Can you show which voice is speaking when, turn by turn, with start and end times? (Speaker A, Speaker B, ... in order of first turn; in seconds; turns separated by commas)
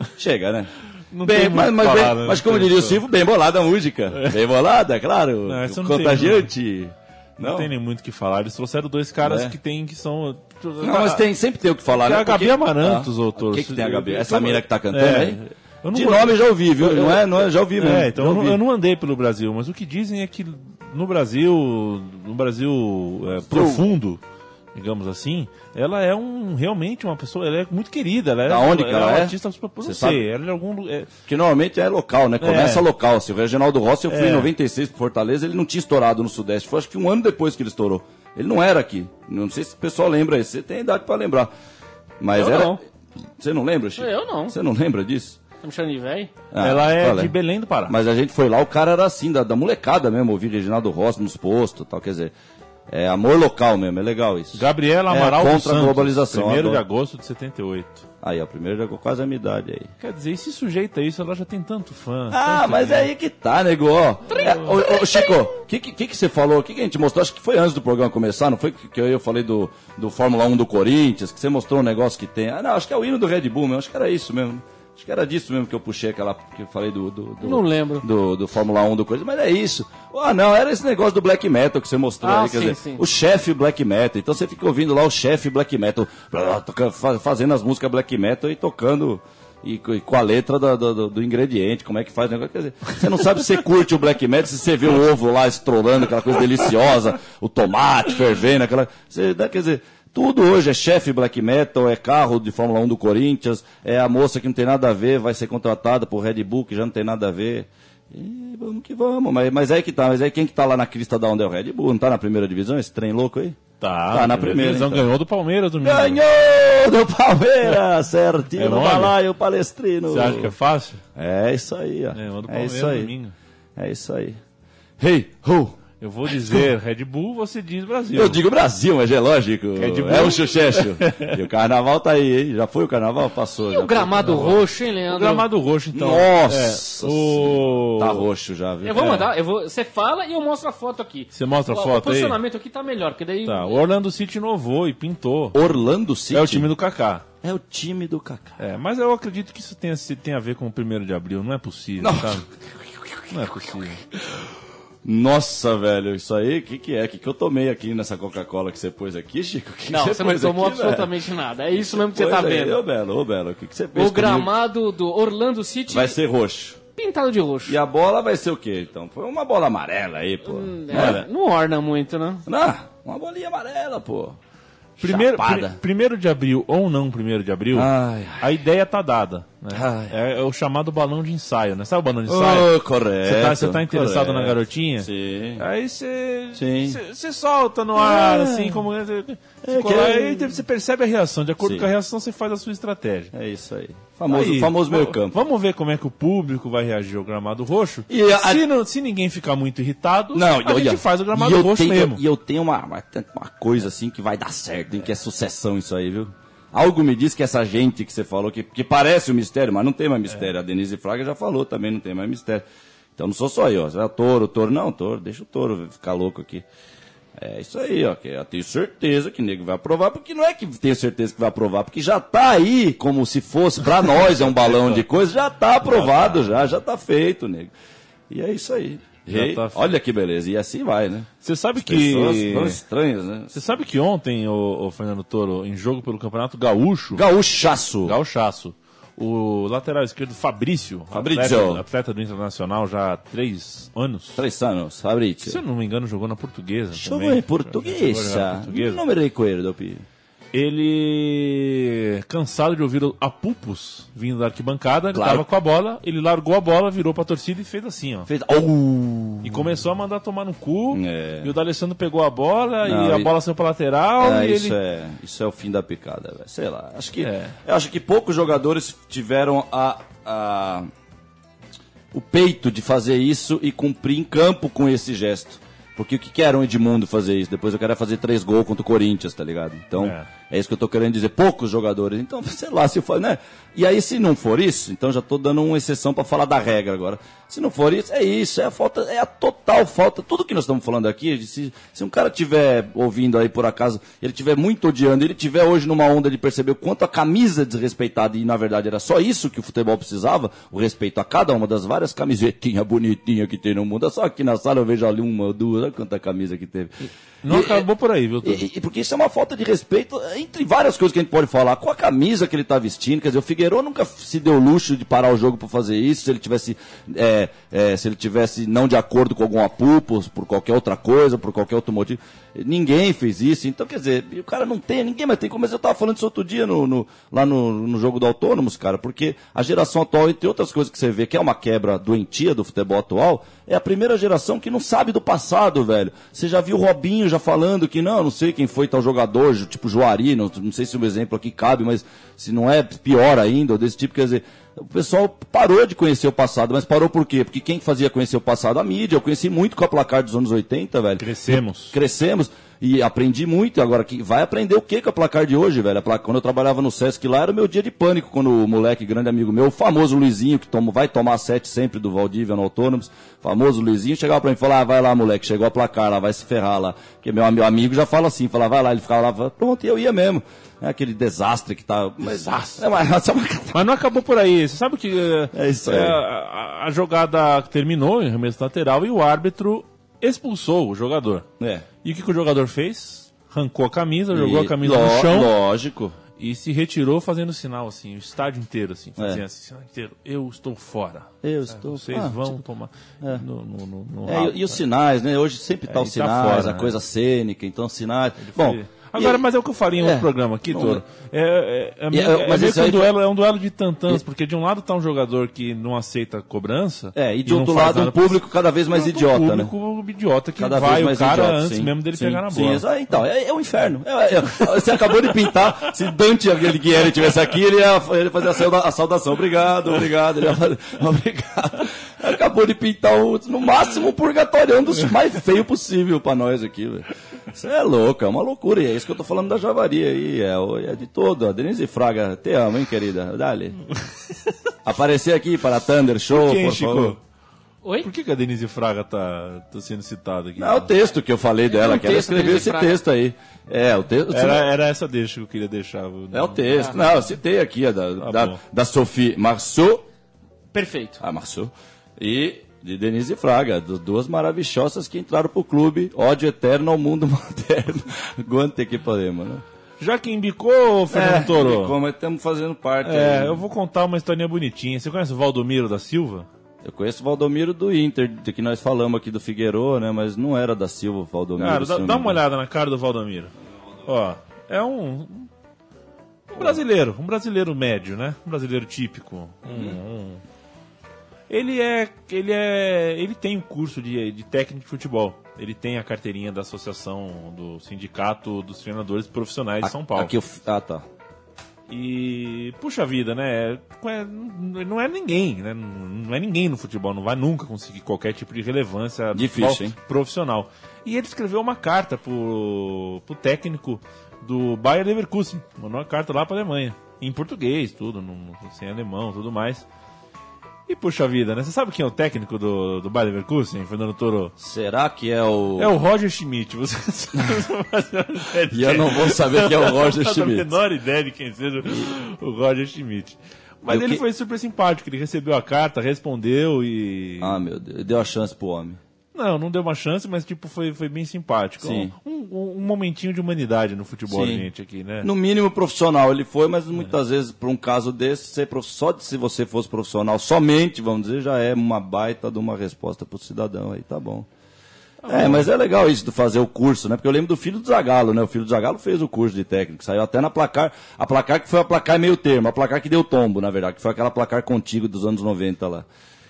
Speaker A: 0.2-7.7, Speaker B: 1.1-3.0, Speaker B: 4.1-4.4, Speaker B: 5.5-6.5, Speaker B: 7.4-11.2, Speaker A: 9.2-9.6, Speaker A: 10.8-15.4, Speaker B: 11.9-24.2, Speaker A: 15.9-18.6, Speaker A: 23.3-23.9, Speaker B: 24.8-31.1, Speaker A: 28.5-30.2, Speaker A: 31.2-41.5, Speaker B: 32.4-32.9, Speaker B: 34.1-34.5, Speaker A: 42.2-42.8, Speaker C: 42.3-42.8, Speaker A: 43.4-45.4, Speaker C: 44.0-44.6, Speaker C: 45.6-46.3, Speaker A: 46.5-47.3, Speaker B: 46.6-48.0, Speaker A: 47.9-52.3, Speaker A: 52.9-56.8, Speaker B: 54.5-58.1, Speaker A: 58.2-59.9, Speaker B: 60.0-63.1, Speaker A: 62.3-115.1, Speaker B: 64.3-64.8, Speaker C: 77.4-78.1, Speaker C: 82.2-83.0, Speaker B: 113.8-116.2, Speaker A: 115.8-120.5, Speaker B: 118.6-119.2, Speaker B: 120.1-121.0, Speaker A: 121.2-123.1, Speaker B: 122.2-123.3, Speaker A: 123.8-124.4, Speaker A: 125.0-126.7, Speaker B: 126.0-128.4, Speaker A: 128.1-134.6, Speaker B: 129.8-131.4, Speaker C: 133.7-135.5, Speaker B: 134.3-138.3, Speaker A: 135.9-139.2, Speaker C: 138.8-143.8, Speaker B: 138.9-139.3, Speaker B: 141.3-142.4, Speaker B: 143.4-145.6, Speaker A: 145.5-146.7, Speaker B: 146.3-147.3, Speaker A: 147.4-148.6, Speaker B: 148.6-152.5, Speaker A: 152.0-154.4, Speaker B: 153.3-154.0, Speaker A: 155.0-161.1, Speaker C: 159.9-162.8, Speaker A: 161.7-164.5, Speaker C: 163.9-166.2, Speaker A: 165.9-166.8, Speaker C: 167.0-167.8, Speaker A: 167.7-171.2, Speaker C: 170.4-172.4, Speaker A: 172.5-174.4, Speaker A: 175.0-175.8, Speaker B: 175.0-182.7, Speaker A: 177.7-178.5, Speaker A: 179.7-180.2, Speaker A: 182.3-185.7, Speaker B: 183.2-193.3, Speaker A: 186.6-187.0, Speaker A: 187.9-188.8, Speaker A: 189.6-190.6, Speaker A: 191.6-191.9, Speaker A: 193.3-195.4, Speaker B: 194.3-202.2, Speaker A: 198.1-198.7, Speaker A: 200.3-216.7, Speaker A: 217.4-227.7, Speaker B: 224.4-225.0, Speaker B: 225.8-226.5, Speaker A: 228.3-233.6, Speaker B: 229.3-229.9, Speaker B: 231.4-232.8, Speaker B: 233.5-237.2, Speaker A: 237.1-238.2, Speaker B: 238.1-244.4, Speaker A: 241.1-241.8, Speaker A: 244.4-245.6, Speaker B: 245.4-249.0, Speaker A: 246.9-250.1, Speaker B: 250.5-258.3, Speaker A: 255.1-255.5, Speaker A: 258.3-259.6, Speaker B: 259.4-264.8, Speaker A: 260.9-261.5, Speaker A: 262.8-263.3, Speaker A: 264.2-270.9, Speaker B: 267.2-267.6, Speaker A: 272.1-307.9, Speaker B: 280.0-280.3, Speaker B: 307.4-308.6, Speaker A: 308.4-373.9, Speaker B: 351.2-351.9, Speaker B: 372.3-372.9, Speaker B: 373.7-381.5, Speaker A: 375.5-376.2, Speaker A: 381.6-381.9, Speaker B: 382.0-385.5, Speaker A: 384.3-386.2, Speaker B: 386.4-394.8, Speaker A: 389.2-389.4, Speaker A: 391.4-392.6, Speaker A: 394.3-399.4, Speaker B: 395.9-396.9, Speaker B: 398.4-408.4, Speaker A: 400.0-401.0, Speaker A: 402.1-403.1, Speaker A: 407.1-409.7, Speaker B: 408.9-412.9, Speaker A: 410.6-433.8, Speaker A: 434.8-437.2, Speaker B: 436.3-437.2, Speaker C: 437.8-438.1, Speaker B: 438.0-440.9, Speaker A: 440.6-444.7, Speaker C: 441.7-443.0, Speaker B: 444.3-447.0, Speaker A: 446.3-450.1, Speaker B: 448.2-448.6, Speaker C: 450.7-451.2, Speaker A: 451.2-459.6, Speaker B: 460.0-461.9, Speaker A: 461.1-463.6, Speaker B: 463.0-466.5, Speaker A: 466.8-472.4, Speaker B: 471.6-473.5, Speaker B: 474.1-475.5, Speaker A: 476.5-476.8, Speaker B: 476.5-480.4, Speaker A: 479.7-480.0, Speaker B: 481.5-490.3, Speaker A: 489.8-491.1, Speaker B: 491.9-509.9, Speaker A: 499.3-500.0, Speaker B: 510.9-514.5, Speaker A: 514.6-515.9, Speaker B: 515.8-527.6, Speaker A: 518.7-520.7, Speaker A: 521.9-522.1, Speaker A: 523.9-524.2, Speaker A: 527.4-529.0, Speaker B: 529.3-535.3, Speaker A: 531.8-532.1, Speaker A: 534.3-534.7, Speaker A: 535.2-544.5, Speaker B: 545.2-545.7, Speaker A: 545.3-556.1